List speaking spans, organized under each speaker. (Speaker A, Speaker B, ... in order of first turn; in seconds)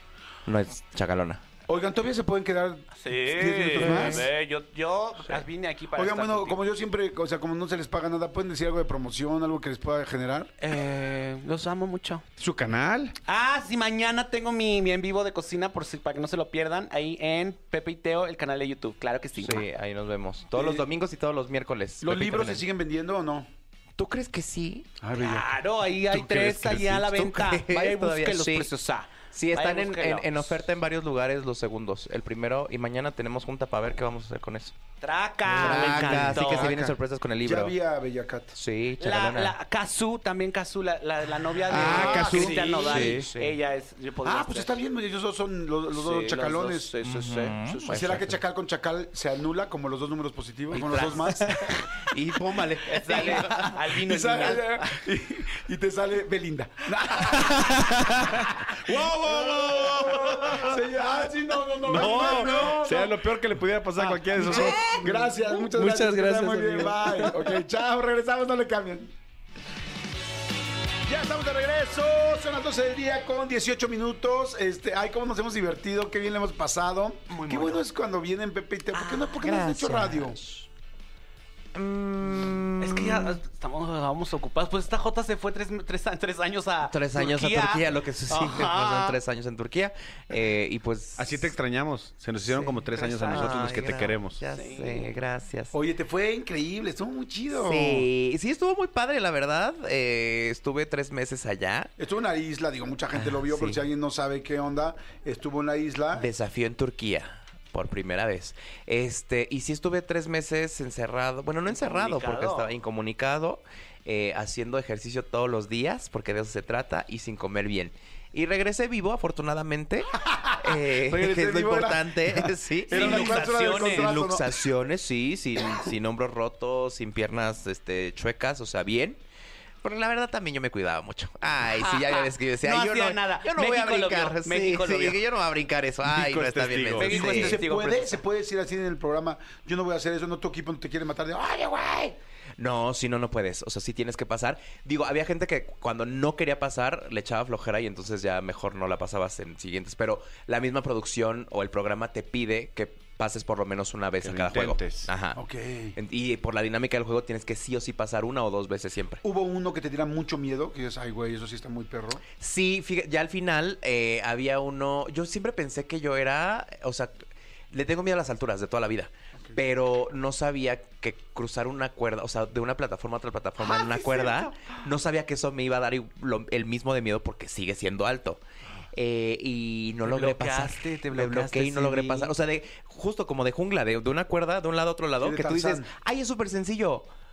Speaker A: 0.4-1.4, 3.8-4.3, 19.4-22.6, 24.0-24.9, 26.1-28.7, 29.2-34.8, 35.5-37.7, 38.5-39.5, 41.7-43.5, 46.9-48.4, 50.7-51.4, 52.0-53.8, 60.1-60.7, 64.3-65.1, 79.3-80.7, 81.7-83.4, 86.8-91.5, 92.5-95.7, 97.5-101.9, 103.1-103.8, 106.1-129.2, 129.8-137.6, 141.8-155.4, 155.9-159.2, 162.4-178.4, 178.9-187.1
Speaker B: 1.7-4.3, 5.9-10.5, 20.5-20.8, 22.0-23.5, 25.0-25.4, 35.6-38.6, 41.8-42.8, 44.2-47.0, 47.8-51.9, 53.9-63.2, 64.4-69.1, 71.0-80.4, 95.7-98.1, 102.0-106.3, 120.2-124.6, 137.2-141.9, 155.3-156.0, 159.2-162.2, 185.2-185.9
Speaker C: 2.9-6.6, 10.6-12.2, 13.2-19.6, 25.1-30.5, 35.0-36.9, 39.0-44.8, 46.0-47.9, 50.7-51.8, 52.8-54.8, 64.5-65.0, 77.3-77.8, 79.0-79.4, 82.8-89.2, 92.9-93.7, 94.5-95.2, 111.7-112.7, 122.9-124.1, 131.8-135.2, 136.9-138.2, 173.6-174.4, 180.0-182.3
Speaker D: 12.4-13.1, 35.7-36.9, 41.7-43.3, 58.7-60.8, 61.8-65.0, 65.7-67.5, 91.2-94.4, 136.0-137.2, 154.2-155.1